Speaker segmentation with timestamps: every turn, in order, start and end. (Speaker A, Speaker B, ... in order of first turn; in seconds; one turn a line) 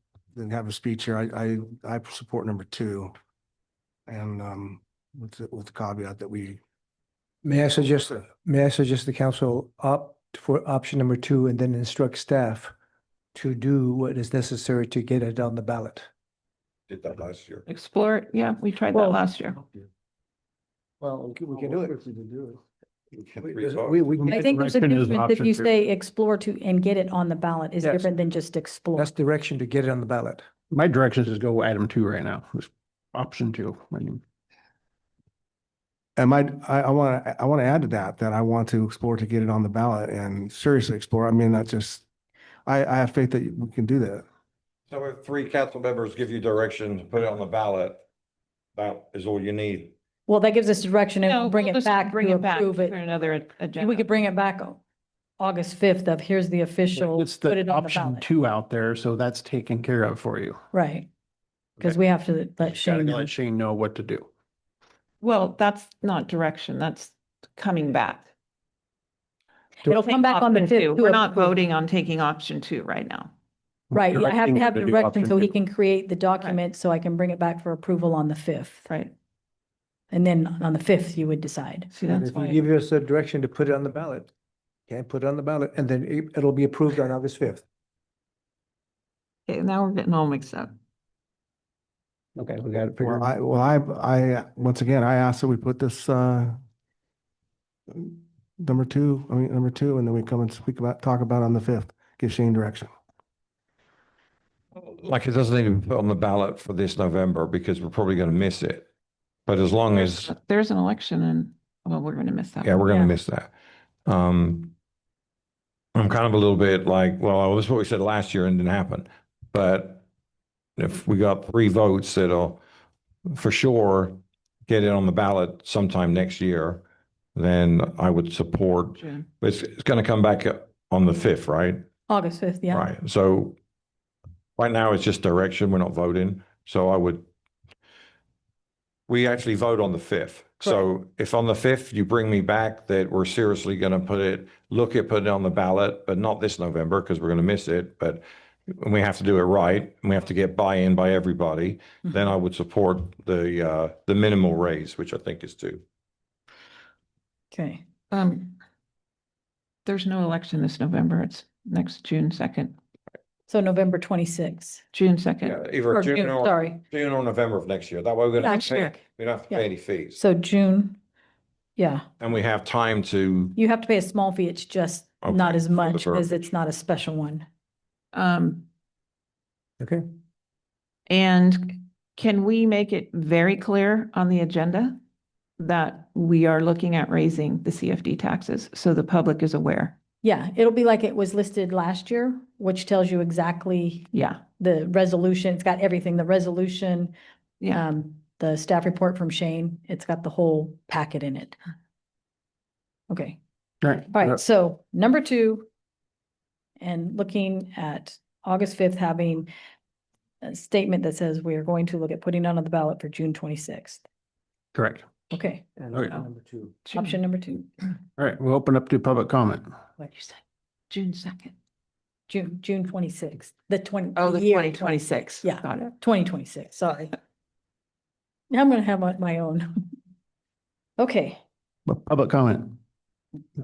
Speaker A: 0.3-3.1
Speaker A: 4.1-6.6
Speaker B: 7.4-12.7
Speaker B: 13.3-16.1
Speaker C: 16.9-17.6
Speaker D: 17.7-19.6
Speaker B: 21.4-22.0
Speaker A: 21.5-22.3
Speaker C: 23.2-24.4
Speaker E: 24.2-29.1
Speaker F: 24.3-25.4
Speaker B: 27.8-28.1
Speaker B: 28.9-30.5
Speaker F: 30.7-34.2
Speaker A: 36.2-42.0
Speaker A: 42.6-44.2
Speaker C: 44.9-48.0
Speaker C: 48.8-49.9
Speaker E: 50.3-53.0
Speaker D: 51.2-54.1
Speaker E: 53.8-54.8
Speaker E: 55.4-58.2
Speaker F: 57.0-60.6
Speaker E: 60.7-61.1
Speaker E: 61.8-63.3
Speaker F: 62.7-64.3
Speaker D: 65.2-68.3
Speaker E: 69.8-71.5
Speaker D: 69.9-73.3
Speaker E: 73.9-78.9
Speaker F: 74.2-74.6
Speaker E: 80.1-81.9
Speaker D: 81.9-82.7
Speaker B: 82.1-84.3
Speaker B: 84.9-87.6
Speaker D: 89.5-90.8
Speaker F: 92.4-93.3
Speaker A: 93.0-96.5
Speaker A: 97.9-102.9
Speaker C: 104.8-108.9
Speaker C: 109.5-110.3
Speaker D: 109.9-112.9
Speaker C: 112.6-113.5
Speaker E: 112.8-113.1
Speaker C: 114.0-114.7
Speaker C: 115.9-120.0
Speaker C: 120.8-122.6
Speaker C: 123.3-126.8
Speaker C: 127.3-131.8
Speaker D: 129.0-129.3
Speaker E: 132.1-132.8
Speaker C: 132.7-133.5
Speaker C: 134.6-137.3
Speaker C: 139.1-155.8
Speaker E: 157.5-157.8
Speaker D: 158.1-158.6
Speaker D: 159.8-162.8
Speaker E: 163.5-164.8
Speaker D: 164.9-165.6
Speaker C: 165.4-170.2
Speaker E: 165.9-166.8
Speaker E: 168.4-171.0
Speaker D: 168.6-168.9
Speaker E: 171.8-172.0
Speaker C: 172.2-173.5
Speaker E: 173.6-177.5
Speaker C: 175.2-176.4
Speaker D: 178.1-178.7
Speaker D: 181.1-185.0
Speaker D: 185.6-189.9
Speaker E: 190.2-197.1
Speaker D: 194.1-194.4
Speaker E: 197.7-201.6
Speaker E: 203.1-203.4
Speaker F: 203.8-204.3
Speaker E: 204.1-205.7
Speaker E: 206.8-209.5
Speaker E: 210.4-214.0
Speaker F: 214.7-215.0
Speaker E: 215.3-215.6
Speaker F: 215.9-216.2
Speaker E: 216.8-217.7
Speaker F: 218.2-219.7
Speaker D: 220.9-221.5
Speaker E: 222.3-227.1
Speaker D: 224.2-225.9
Speaker E: 228.5-229.8
Speaker E: 231.0-231.4
Speaker F: 231.8-232.8